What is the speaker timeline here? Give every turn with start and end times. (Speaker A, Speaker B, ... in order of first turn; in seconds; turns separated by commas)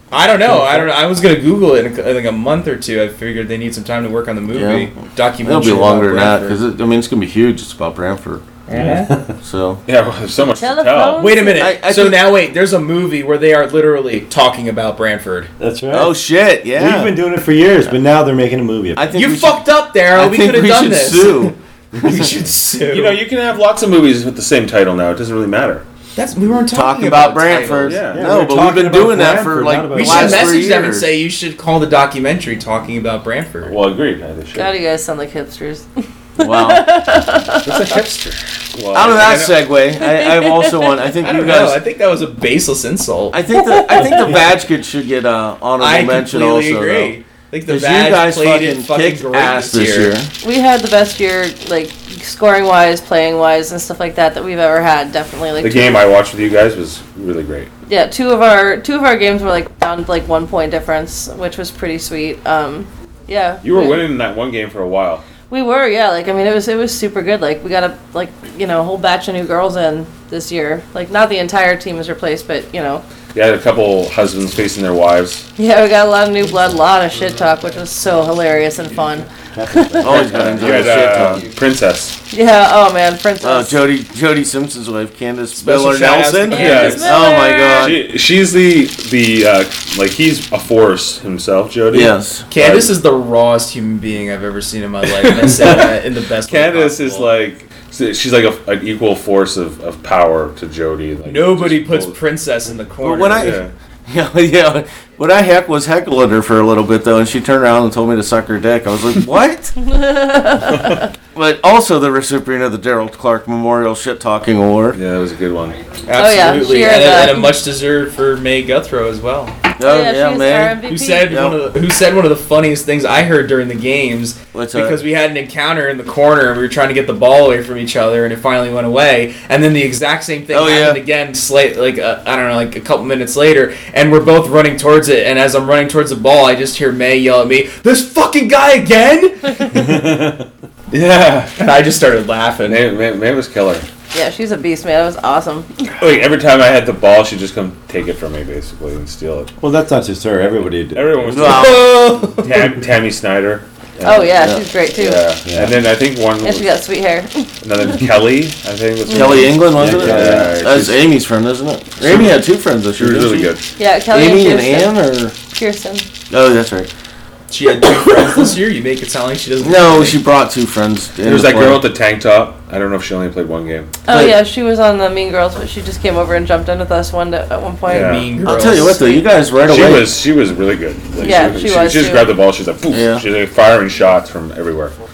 Speaker A: 0.1-6.6, Speaker B: 0.5-0.9, Speaker C: 4.5-4.9, Speaker C: 5.4-8.4, Speaker A: 8.7-9.1, Speaker B: 8.7-9.3, Speaker C: 9.4-9.8, Speaker D: 9.9-11.2, Speaker E: 10.5-11.7, Speaker A: 11.2-15.5, Speaker C: 11.6-12.3, Speaker B: 15.6-16.1, Speaker C: 15.9-17.1, Speaker B: 16.7-19.0, Speaker C: 18.9-22.2, Speaker A: 19.1-23.2, Speaker D: 22.9-25.8, Speaker A: 26.1-28.0, Speaker C: 26.7-31.1, Speaker D: 27.8-28.3, Speaker B: 28.1-30.6, Speaker A: 29.9-33.7, Speaker D: 33.6-34.7, Speaker E: 34.5-35.9, Speaker E: 36.4-38.0, Speaker C: 36.4-36.9, Speaker D: 37.6-39.6, Speaker C: 38.9-41.8, Speaker E: 40.0-41.1, Speaker A: 41.2-43.4, Speaker C: 43.3-47.1, Speaker E: 43.5-44.4, Speaker A: 45.8-50.1, Speaker C: 47.7-50.3, Speaker E: 50.4-56.0, Speaker D: 55.6-57.7, Speaker E: 57.9-64.0, Speaker D: 63.6-65.2, Speaker E: 65.5-73.0, Speaker D: 73.3-75.5, Speaker E: 75.6-80.0, Speaker B: 79.5-80.6, Speaker C: 80.0-81.5, Speaker D: 80.1-82.2, Speaker A: 80.7-81.5, Speaker E: 82.3-83.8, Speaker C: 83.4-88.0, Speaker A: 85.5-87.3, Speaker E: 86.5-88.0, Speaker D: 86.5-87.1, Speaker D: 87.8-92.9, Speaker C: 91.9-92.4, Speaker A: 92.5-97.3, Speaker D: 95.2-95.9, Speaker D: 96.5-102.2, Speaker A: 101.2-103.6, Speaker C: 103.0-109.8, Speaker D: 103.4-103.7, Speaker E: 109.8-111.1, Speaker C: 111.3-115.0, Speaker D: 114.9-115.8, Speaker A: 116.1-119.5, Speaker E: 116.2-117.6, Speaker C: 119.8-121.6, Speaker E: 119.8-121.5, Speaker A: 120.9-139.8, Speaker C: 124.5-125.0, Speaker C: 130.5-131.0, Speaker B: 139.8-140.4, Speaker D: 140.9-141.6, Speaker A: 141.6-142.8, Speaker D: 142.7-143.8, Speaker E: 144.1-145.7, Speaker D: 146.0-149.5, Speaker B: 149.6-151.7, Speaker D: 150.9-156.6, Speaker C: 151.3-152.1, Speaker A: 151.4-152.6, Speaker E: 154.0-155.3, Speaker C: 154.3-154.6, Speaker B: 155.4-155.8, Speaker E: 156.4-157.5, Speaker D: 157.6-161.0, Speaker C: 159.1-163.5, Speaker E: 159.1-159.4, Speaker B: 159.8-160.6, Speaker D: 162.0-162.4, Speaker D: 163.0-163.6, Speaker E: 163.8-166.1, Speaker C: 164.1-165.4, Speaker C: 166.3-166.9, Speaker A: 167.5-170.2, Speaker C: 169.6-171.8, Speaker D: 171.2-173.9, Speaker E: 174.1-179.2, Speaker C: 174.1-174.4, Speaker D: 177.8-178.3, Speaker A: 177.9-179.0, Speaker C: 178.4-180.1, Speaker D: 179.6-184.9, Speaker E: 181.2-182.3, Speaker C: 182.9-183.2